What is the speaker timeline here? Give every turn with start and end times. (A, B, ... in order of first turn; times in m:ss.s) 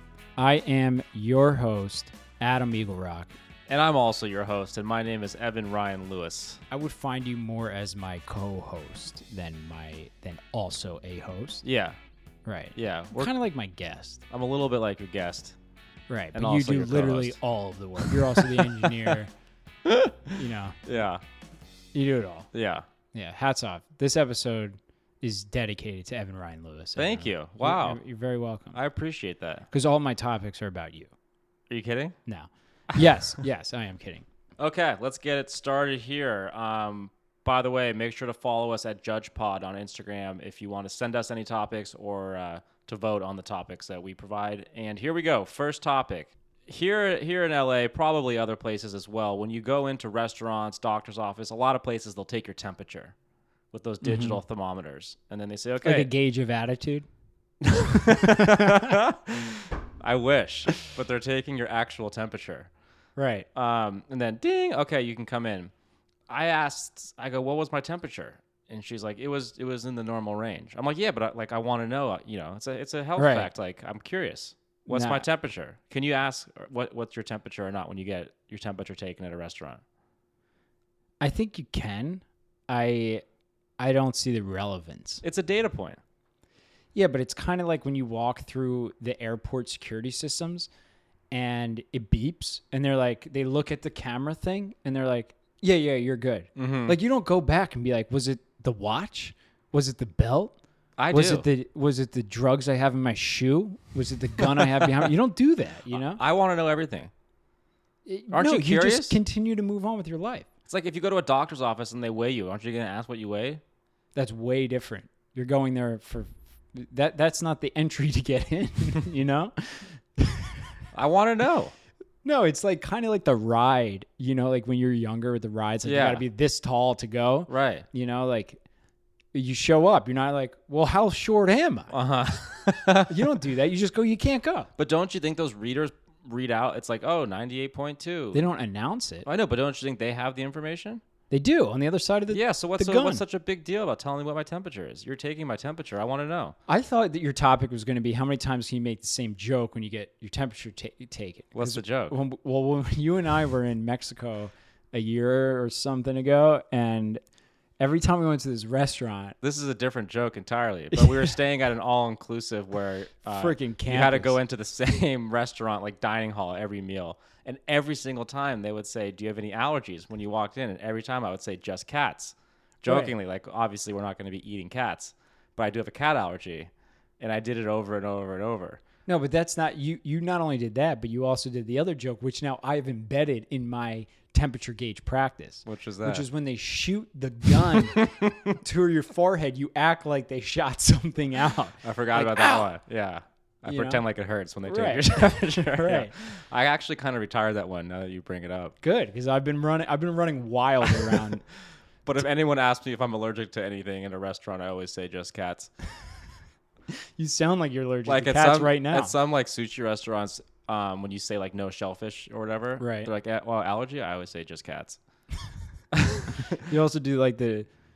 0:00.4-0:03.3 A
0:03.7-0:06.6 B
0:06.7-0:11.6 A
0:11.6-0:12.0 B
0:12.4-0:14.2 A
0:12.8-0:13.3 B
0:14.3-0:15.6 B
0:16.1-0:19.3 A
0:16.3-0:17.4 B
0:18.0-0:19.2 B
0:19.8-0:21.2 B
0:20.4-0:20.8 A
0:21.9-0:22.5 A
0:22.5-0:22.8 B
0:23.1-0:28.8 A
0:27.0-0:28.0 B
0:28.7-0:29.7 B
0:29.7-0:31.1 A
0:31.7-0:32.2 B
0:32.2-0:34.2 A
0:34.6-0:53.1 B
0:53.7-0:56.1 B
0:54.0-0:54.4 A
0:55.8-0:57.1 A
0:57.6-1:02.7 B
0:57.9-0:59.0 A
1:03.2-1:03.5 A
1:03.5-1:05.7 B
1:06.3-1:19.8 B
1:13.2-1:13.5 A
1:14.9-1:15.2 A
1:21.2-1:23.2 A
1:23.8-1:25.2 A
1:25.2-1:26.0 B
1:26.9-1:30.7 A
1:31.3-1:40.5 A
1:36.6-1:37.0 B
1:41.0-1:41.4 B
1:41.1-1:46.2 A
1:44.6-1:45.1 B
1:45.9-1:47.1 B
1:48.0-1:50.5 A
1:48.3-1:49.2 B
1:50.7-1:53.6 B
1:54.1-2:00.6 A
2:00.9-2:01.7 B
2:02.2-2:08.6 A
2:05.8-2:06.2 B
2:07.5-2:07.8 B
2:09.3-2:11.9 A
2:11.9-2:13.4 B
2:13.0-2:14.7 A
2:14.8-2:18.4 B
2:18.3-2:19.3 A
2:19.2-2:21.0 B
2:21.3-2:23.2 A
2:22.3-2:26.5 B
2:26.7-2:37.2 A
2:31.5-2:32.1 B
2:37.8-2:39.4 A
2:39.4-2:58.8 B
2:40.9-2:41.3 A
2:43.3-2:44.4 A
2:52.8-2:53.1 A
2:59.0-3:12.7 A
3:05.6-3:06.2 B
3:07.7-3:08.5 B
3:11.8-3:18.7 B
3:13.6-3:14.0 A
3:14.6-3:16.2 A
3:18.8-3:21.4 A
3:20.9-3:21.3 B
3:22.0-3:25.7 B
3:27.2-3:29.1 A
3:28.0-3:35.0 B
3:32.8-3:33.1 A
3:35.9-3:36.6 B
3:36.6-3:37.7 A